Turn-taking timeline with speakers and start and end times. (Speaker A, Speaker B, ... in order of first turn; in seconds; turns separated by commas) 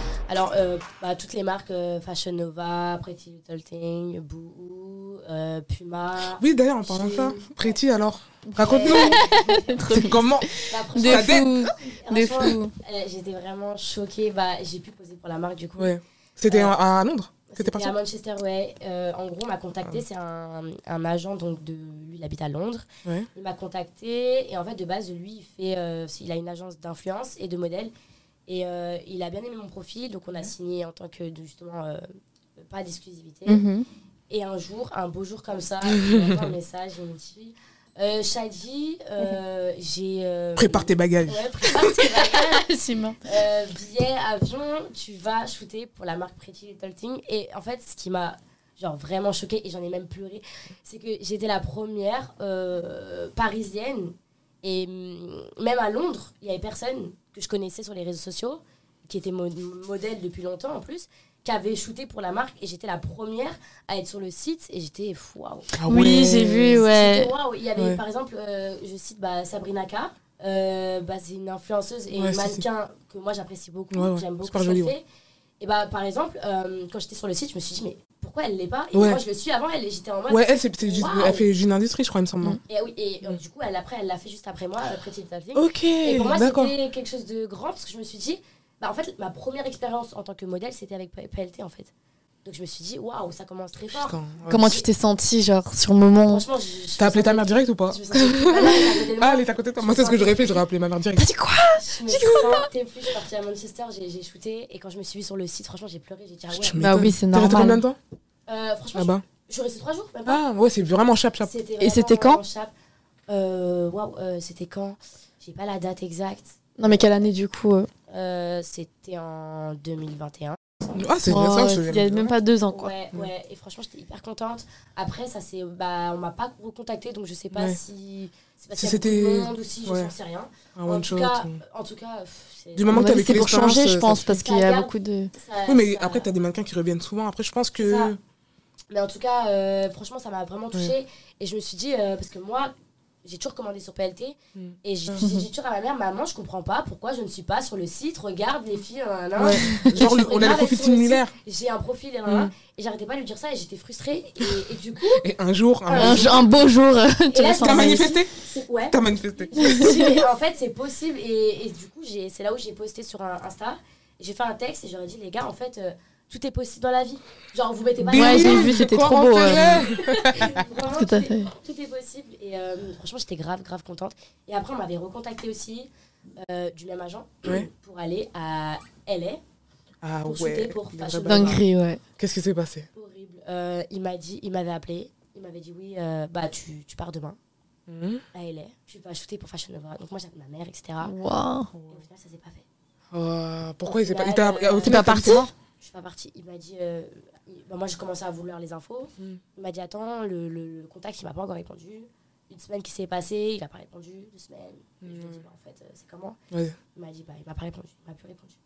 Speaker A: 0.3-7.8, Speaker B: 6.3-9.4, Speaker C: 8.5-12.7, Speaker A: 8.6-9.8, Speaker B: 9.9-10.5, Speaker A: 10.6-15.9, Speaker B: 11.0-11.7, Speaker B: 15.8-17.9, Speaker A: 16.5-16.8, Speaker A: 17.5-27.9, Speaker A: 28.5-32.0, Speaker A: 32.6-33.6, Speaker C: 33.5-33.8, Speaker A: 34.3-42.7, Speaker B: 35.9-36.5, Speaker B: 40.6-41.9, Speaker C: 42.0-43.2, Speaker A: 43.2-65.7, Speaker B: 65.7-66.8, Speaker C: 65.8-67.3, Speaker A: 66.7-75.0, Speaker B: 67.8-68.0, Speaker B: 72.1-72.6, Speaker B: 73.9-74.9, Speaker A: 75.6-81.4, Speaker B: 78.9-79.2, Speaker B: 80.3-82.6, Speaker A: 82.7-91.9, Speaker B: 85.5-86.7, Speaker A: 92.4-94.9, Speaker B: 93.9-94.6, Speaker C: 94.5-96.4, Speaker A: 96.3-100.6, Speaker B: 97.0-101.3, Speaker C: 101.2-102.7, Speaker A: 101.7-106.8, Speaker B: 106.5-108.0, Speaker C: 106.8-107.8, Speaker A: 108.5-110.4, Speaker B: 108.9-109.2, Speaker B: 110.2-111.5, Speaker A: 111.4-112.7, Speaker C: 111.8-112.4, Speaker A: 113.3-117.0, Speaker C: 116.8-117.9, Speaker A: 118.1-120.6, Speaker B: 120.9-122.3, Speaker C: 121.3-122.9, Speaker A: 122.7-133.3, Speaker B: 127.5-127.8, Speaker B: 128.8-130.1, Speaker B: 130.7-131.6, Speaker B: 132.7-134.3, Speaker C: 132.9-135.3, Speaker A: 134.3-136.3, Speaker B: 135.7-138.2, Speaker A: 137.8-138.1, Speaker A: 138.9-142.7, Speaker A: 143.2-155.3, Speaker B: 144.6-145.2, Speaker C: 145.2-145.4, Speaker B: 149.4-151.3, Speaker C: 149.7-150.2, Speaker B: 152.3-152.5, Speaker B: 155.2-156.5, Speaker A: 155.8-156.5, Speaker C: 155.9-158.1, Speaker A: 157.3-168.8, Speaker B: 157.6-158.3, Speaker B: 158.9-160.1, Speaker C: 159.6-160.3, Speaker B: 168.1-170.7, Speaker C: 168.1-169.9, Speaker A: 169.5-179.4, Speaker C: 170.9-171.5, Speaker B: 180.0-181.6, Speaker A: 180.2-181.6, Speaker C: 181.2-182.0, Speaker B: 182.2-182.9, Speaker A: 182.9-187.4, Speaker B: 187.9-188.2, Speaker A: 188.3-191.1, Speaker C: 191.0-191.7, Speaker B: 191.7-192.0, Speaker A: 191.9-192.6, Speaker B: 193.1-195.5, Speaker A: 193.9-206.4, Speaker C: 194.8-195.5, Speaker B: 205.0-205.4, Speaker A: 206.9-208.6